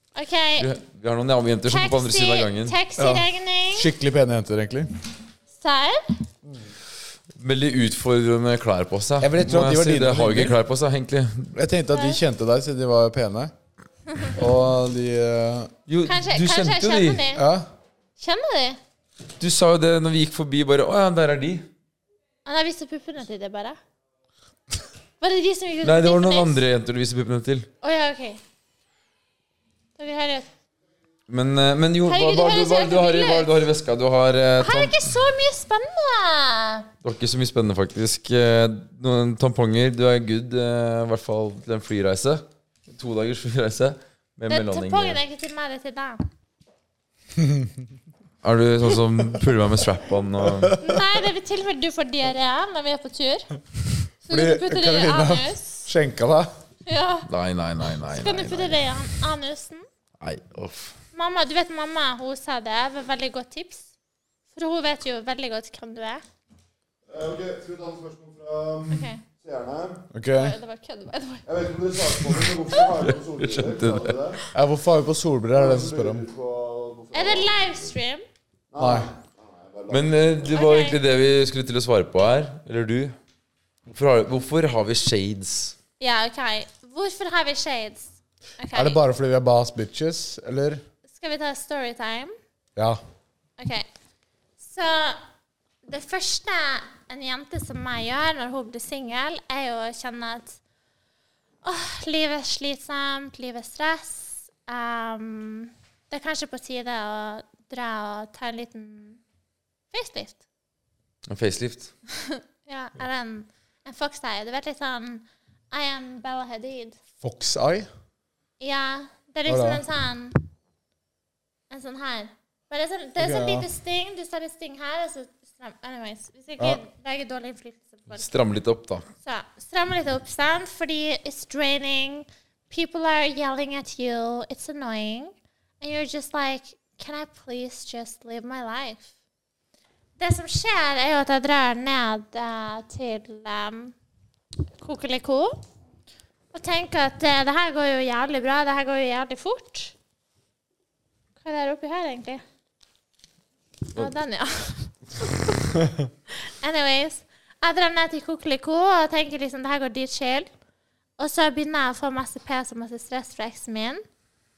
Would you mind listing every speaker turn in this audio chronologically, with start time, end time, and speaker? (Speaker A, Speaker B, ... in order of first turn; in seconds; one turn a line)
Speaker A: 0.1-0.7
Speaker B: 0.6-2.8
Speaker A: 1.7-3.9
Speaker C: 3.0-4.9
Speaker A: 5.6-6.1
Speaker B: 7.4-11.5
Speaker C: 9.2-10.6
Speaker C: 11.5-13.5
Speaker A: 11.9-12.2
Speaker C: 14.2-15.7
Speaker B: 15.9-17.2
Speaker A: 16.0-17.4
Speaker C: 17.3-17.6
Speaker A: 18.2-18.8
Speaker B: 19.4-21.7
Speaker A: 22.4-23.8
Speaker A: 25.2-26.6
Speaker B: 25.8-27.7
Speaker A: 27.8-28.4
Speaker A: 30.0-30.5
Speaker B: 31.3-35.1
Speaker A: 32.0-33.6
Speaker A: 34.6-36.9
Speaker B: 37.0-45.2
Speaker A: 44.5-46.2
Speaker C: 47.4-47.7
Speaker B: 48.4-50.8
Speaker C: 50.5-51.0
Speaker A: 50.8-53.5
Speaker A: 54.2-55.9
Speaker C: 54.3-56.5
Speaker A: 56.9-57.3
Speaker B: 57.3-58.9
Speaker A: 58.0-59.8
Speaker B: 60.2-60.9
Speaker A: 61.1-63.9
Speaker A: 64.5-66.2
Speaker D: 67.1-70.0
Speaker A: 68.9-69.2
Speaker C: 70.1-70.5
Speaker A: 70.3-71.4
Speaker D: 71.5-74.4
Speaker B: 72.3-74.2
Speaker C: 74.5-76.2
Speaker D: 75.5-77.7
Speaker A: 77.1-78.2
Speaker D: 78.7-80.1
Speaker C: 78.8-79.1
Speaker B: 79.9-83.2
Speaker A: 80.5-81.0
Speaker B: 83.9-85.8
Speaker A: 86.0-89.0
Speaker C: 88.7-90.8
Speaker A: 91.1-92.3
Speaker A: 93.6-93.8
Speaker A: 94.6-95.2
Speaker A: 95.8-100.6
Speaker A: 101.6-109.2
Speaker A: 109.9-110.4
Speaker B: 111.3-111.9
Speaker A: 112.1-117.0
Speaker C: 117.2-117.9
Speaker A: 118.6-120.4
Speaker C: 119.5-119.8
Speaker A: 121.7-128.3
Speaker C: 123.2-123.7
Speaker B: 128.1-129.1
Speaker A: 129.2-139.1
Speaker A: 140.2-143.9
Speaker A: 144.8-145.6
Speaker A: 146.5-149.9
Speaker A: 151.4-152.4
Speaker A: 153.9-155.5
Speaker A: 156.3-160.5
Speaker A: 161.2-164.0